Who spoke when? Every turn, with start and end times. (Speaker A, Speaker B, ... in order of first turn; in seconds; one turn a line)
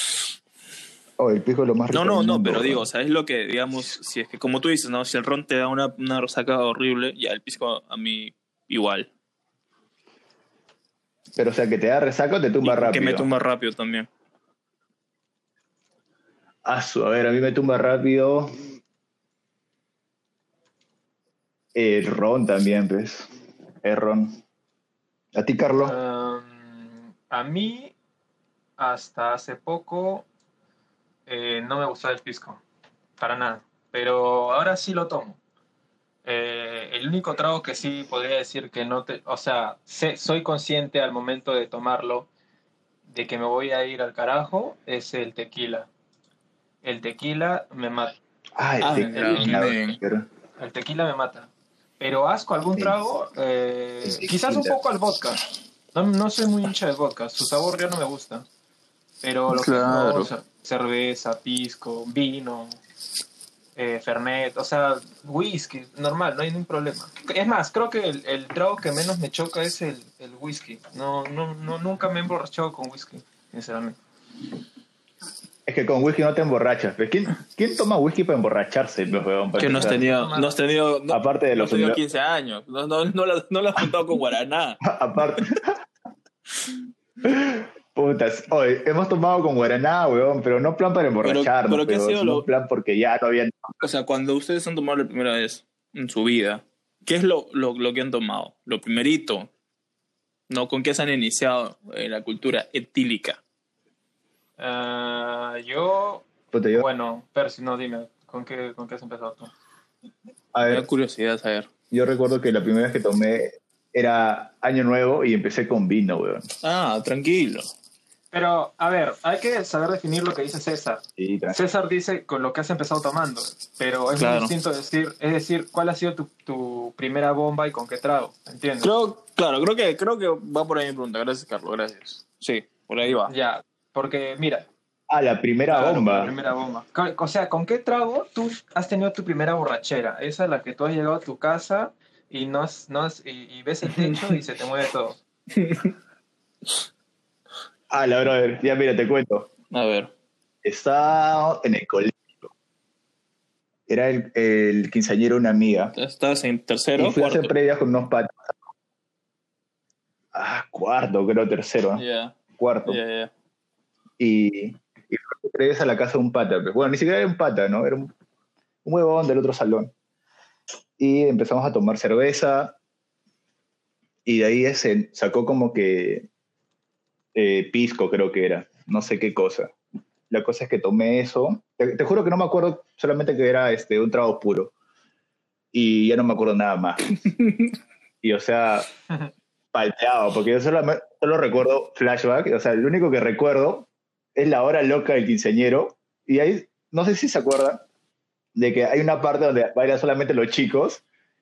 Speaker A: 1.2-2.9
Speaker B: 1.9-9.1
Speaker A: 11.3-13.3
Speaker B: 12.6-14.1
Speaker A: 16.6-18.6
Speaker A: 21.7-23.3
Speaker A: 23.8-24.4
Speaker A: 25.3-25.9
Speaker C: 25.8-27.9
Speaker C: 28.8-30.2
Speaker C: 31.3-32.6
Speaker C: 33.2-35.4
Speaker C: 36.2-42.3
Speaker C: 43.1-45.9
Speaker C: 46.8-48.2
Speaker A: 48.6-50.3
Speaker B: 48.8-50.0
Speaker C: 49.0-49.8
Speaker C: 50.6-55.4
Speaker A: 54.0-54.8
Speaker C: 55.9-58.5
Speaker C: 59.2-62.8
Speaker B: 59.5-60.3
Speaker C: 63.8-74.0
Speaker A: 75.7-80.0
Speaker C: 79.5-80.5
Speaker B: 79.6-84.8
Speaker A: 81.1-82.0
Speaker A: 84.8-85.8
Speaker A: 87.2-93.7
Speaker B: 91.2-92.5
Speaker B: 93.8-99.5
Speaker B: 100.5-103.4
Speaker C: 104.6-109.5
Speaker A: 106.5-106.8
Speaker A: 110.5-110.8
Speaker B: 110.7-111.7
Speaker A: 111.9-116.5
Speaker B: 116.6-117.7
Speaker C: 118.3-128.9
Speaker A: 121.2-121.5
Speaker B: 124.2-124.5
Speaker B: 128.8-133.3
Speaker C: 133.0-134.7
Speaker A: 135.1-136.3
Speaker C: 135.7-145.2
Speaker B: 145.5-145.9
Speaker A: 147.9-149.5
Speaker B: 149.7-150.1
Speaker A: 150.6-152.4
Speaker A: 153.9-155.9
Speaker B: 155.9-157.5
Speaker A: 157.0-158.6
Speaker A: 160.3-162.0
Speaker B: 161.9-163.3
Speaker A: 162.6-163.0
Speaker A: 164.2-168.1
Speaker A: 168.8-169.9
Speaker A: 171.0-172.8
Speaker A: 174.2-176.3
Speaker A: 177.3-179.7
Speaker A: 180.3-184.7
Speaker A: 185.7-187.0
Speaker B: 187.2-187.7
Speaker A: 188.2-188.9
Speaker A: 189.7-197.8
Speaker A: 198.6-201.0